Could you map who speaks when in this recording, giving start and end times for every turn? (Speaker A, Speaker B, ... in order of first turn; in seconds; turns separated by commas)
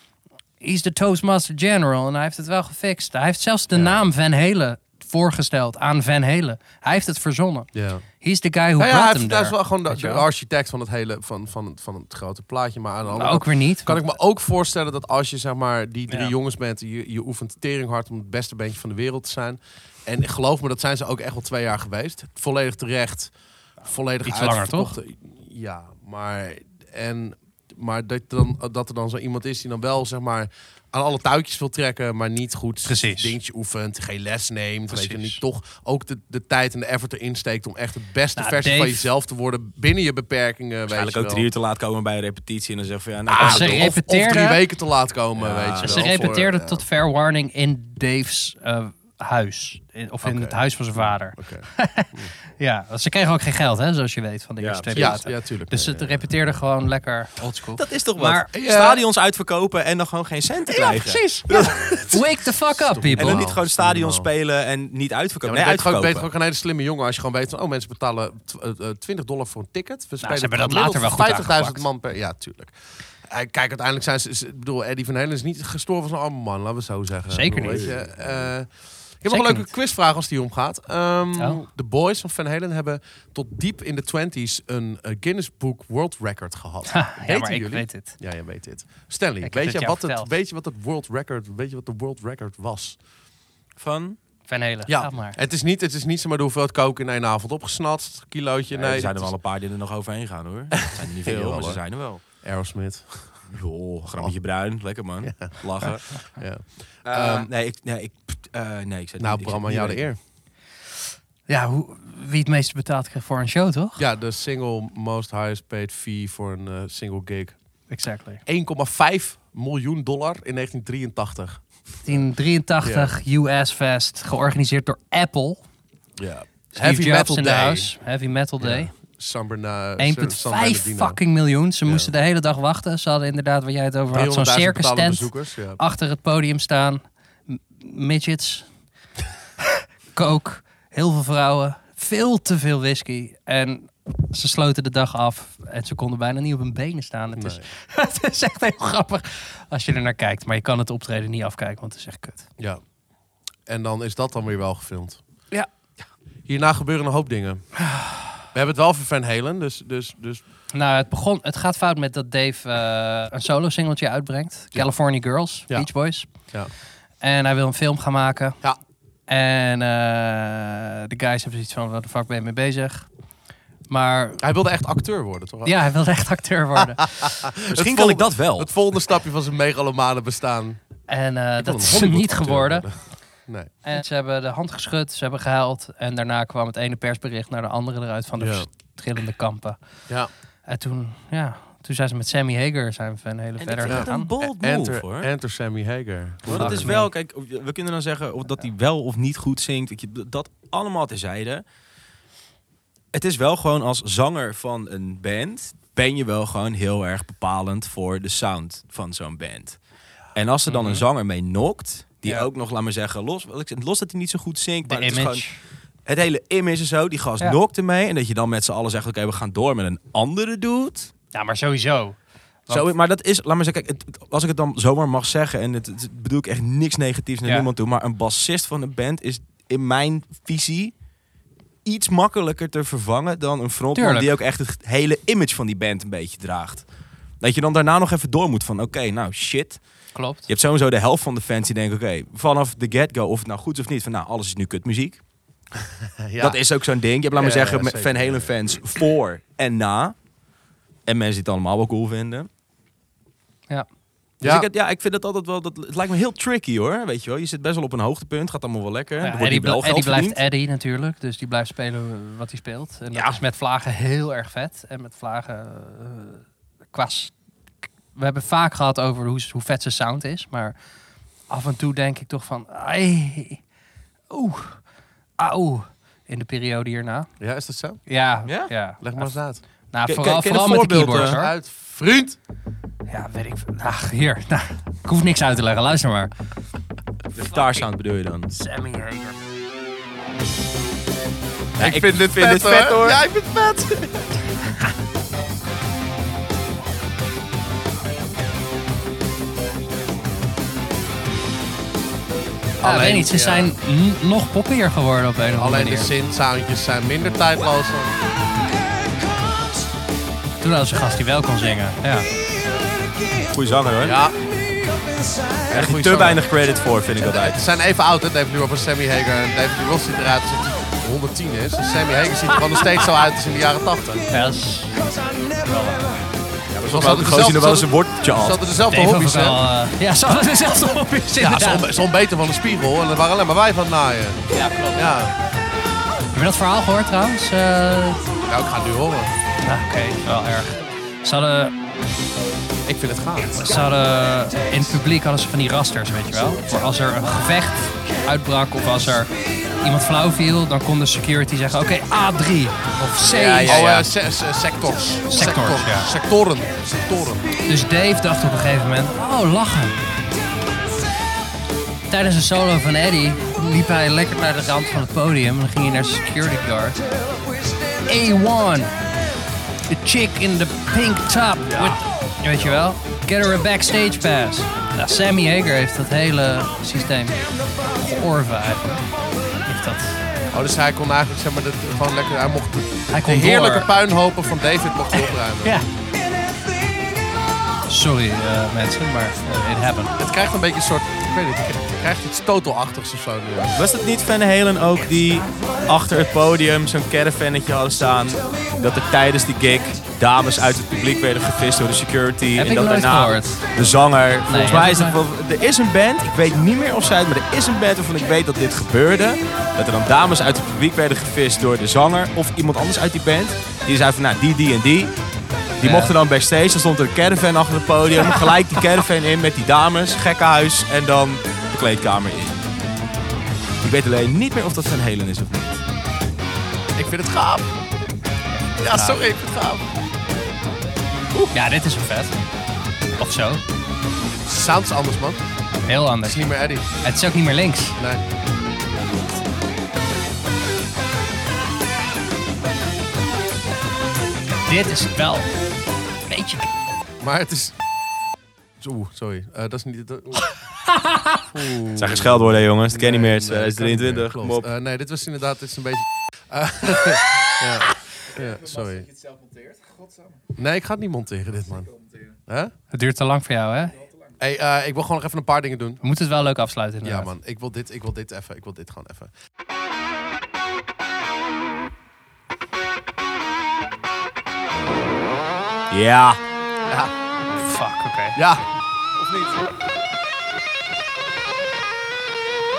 Speaker A: 0.6-7.7, Speaker B: 3.7-4.1, Speaker B: 7.7-8.0, Speaker A: 8.2-10.2, Speaker B: 8.8-23.3, Speaker A: 13.2-14.0, Speaker B: 23.8-41.5, Speaker A: 24.2-24.9, Speaker A: 32.9-33.3, Speaker A: 34.9-35.4, Speaker A: 38.4-39.1, Speaker C: 40.9-43.8, Speaker B: 43.3-46.9, Speaker A: 43.4-44.6, Speaker C: 45.4-46.4, Speaker A: 45.8-58.5, Speaker B: 50.2-50.6, Speaker B: 51.3-52.3, Speaker C: 54.6-55.2, Speaker B: 54.9-56.3, Speaker C: 57.8-62.2, Speaker B: 58.5-59.0, Speaker A: 60.7-63.4, Speaker B: 62.7-64.3, Speaker C: 63.2-66.3, Speaker B: 65.5-72.8, Speaker A: 70.2-71.8, Speaker B: 73.3-78.7, Speaker A: 77.3-77.9, Speaker C: 77.5-78.5, Speaker B: 79.2-93.0, Speaker A: 79.3-79.7, Speaker A: 81.4-81.6, Speaker A: 86.9-88.2, Speaker A: 89.4-90.3, Speaker C: 93.8-94.2, Speaker A: 94.5-95.4, Speaker B: 94.9-99.3, Speaker C: 98.7-102.2, Speaker B: 100.9-103.4, Speaker C: 103.5-106.2, Speaker B: 105.2-107.5, Speaker C: 107.0-110.0, Speaker B: 109.2-110.2, Speaker A: 111.5-114.0, Speaker B: 114.0-117.6, Speaker A: 117.9-118.4, Speaker B: 118.5-122.3, Speaker A: 122.0-125.6, Speaker B: 122.8-123.2, Speaker B: 126.2-127.9, Speaker A: 126.7-128.9, Speaker B: 128.6-131.2, Speaker A: 130.0-138.7, Speaker B: 131.8-132.1, Speaker B: 134.1-135.8, Speaker A: 140.1-152.5, Speaker B: 147.4-147.7, Speaker B: 153.7-155.2, Speaker B: 156.5-157.7, Speaker A: 157.9-158.3, Speaker B: 158.5-160.4, Speaker A: 160.7-166.3, Speaker A: 167.2-168.6, Speaker A: 169.3-173.1, Speaker A: 173.9-174.4, Speaker B: 174.4-175.8, Speaker A: 175.7-177.3, Speaker B: 176.8-180.8, Speaker C: 177.7-178.7, Speaker A: 181.1-182.9, Speaker B: 181.6-182.9, Speaker B: 183.5-183.7, Speaker A: 183.8-189.8, Speaker B: 188.4-188.7, Speaker A: 190.7-194.3, Speaker C: 193.6-195.3, Speaker B: 193.9-197.0, Speaker C: 196.5-201.6, Speaker A: 196.5-197.1, Speaker C: 203.1-209.8, Speaker C: 210.3-215.4, Speaker A: 210.7-211.1, Speaker A: 214.9-215.6, Speaker C: 216.1-221.1, Speaker A: 221.3-222.9, Speaker C: 222.7-230.9, Speaker C: 231.8-236.9, Speaker A: 233.9-234.3, Speaker C: 237.4-239.8, Speaker A: 240.2-240.5, Speaker C: 240.5-245.2, Speaker B: 246.2-246.6, Speaker C: 246.4-250.2, Speaker B: 247.3-248.6, Speaker C: 251.1-252.5, Speaker B: 254.4-254.7, Speaker C: 254.4-260.4, Speaker A: 259.2-267.3, Speaker C: 263.1-263.4, Speaker A: 268.1-270.8, Speaker A: 271.5-273.6, Speaker A: 274.3-274.8, Speaker A: 275.4-277.3, Speaker B: 277.4-278.0, Speaker A: 278.1-279.3, Speaker C: 278.5-278.7, Speaker B: 279.0-279.6, Speaker A: 279.9-281.5, Speaker C: 280.1-281.4, Speaker B: 281.1-282.4, Speaker A: 283.1-286.3, Speaker C: 287.3-288.5, Speaker A: 288.5-289.4, Speaker C: 291.8-293.2, Speaker B: 291.8-294.3, Speaker B: 302.8-303.7, Speaker A: 302.8-306.1, Speaker B: 305.6-308.1, Speaker A: 310.6-312.3, Speaker C: 313.5-314.2, Speaker B: 314.0-314.4, Speaker B: 315.7-316.5, Speaker C: 315.7-317.6, Speaker B: 317.2-324.2, Speaker A: 324.3-326.2, Speaker C: 326.7-328.6, Speaker B: 326.9-329.6, Speaker A: 328.9-331.9, Speaker B: 331.4-334.4, Speaker A: 334.6-335.0, Speaker B: 334.9-335.3, Speaker A: 336.3-338.2, Speaker B: 338.5-339.3, Speaker A: 339.6-341.7, Speaker B: 342.9-343.6, Speaker A: 343.6-349.3, Speaker A: 349.8-354.0, Speaker C: 353.3-354.1, Speaker B: 353.6-357.5, Speaker A: 355.3-356.1, Speaker A: 357.7-360.0, Speaker A: 362.1-367.0, Speaker A: 368.1-368.9, Speaker A: 369.9-379.1, Speaker A: 379.6-380.2, Speaker B: 380.5-385.8, Speaker A: 383.1-383.9, Speaker A: 385.2-385.9, Speaker A: 387.9-390.1, Speaker B: 390.2-393.8, Speaker C: 393.8-415.1, Speaker A: 402.6-403.6, Speaker A: 404.5-405.2, Speaker C: 415.8-422.6, Speaker A: 415.8-416.1, Speaker C: 423.8-425.8, Speaker B: 426.9-427.7, Speaker A: 428.5-429.2, Speaker B: 428.8-429.9, Speaker A: 431.5-432.4, Speaker A: 433.2-433.6, Speaker B: 434.4-435.4, Speaker A: 435.9-436.5, Speaker B: 436.2-436.9, Speaker A: 437.0-438.0, Speaker B: 438.0-438.3, Speaker A: 444.7-445.5, Speaker A: 446.3-446.7, Speaker B: 447.2-447.8, Speaker B: 448.8-450.5, Speaker A: 450.9-451.4, Speaker B: 451.5-459.1, Speaker C: 452.0-454.7, Speaker B: 460.5-461.9, Speaker B: 462.5-462.7, Speaker A: 462.9-464.0, Speaker B: 464.4-466.0, Speaker A: 466.0-467.3, Speaker B: 467.0-469.3, Speaker C: 475.9-476.4, Speaker A: 477.5-478.4, Speaker B: 478.4-478.6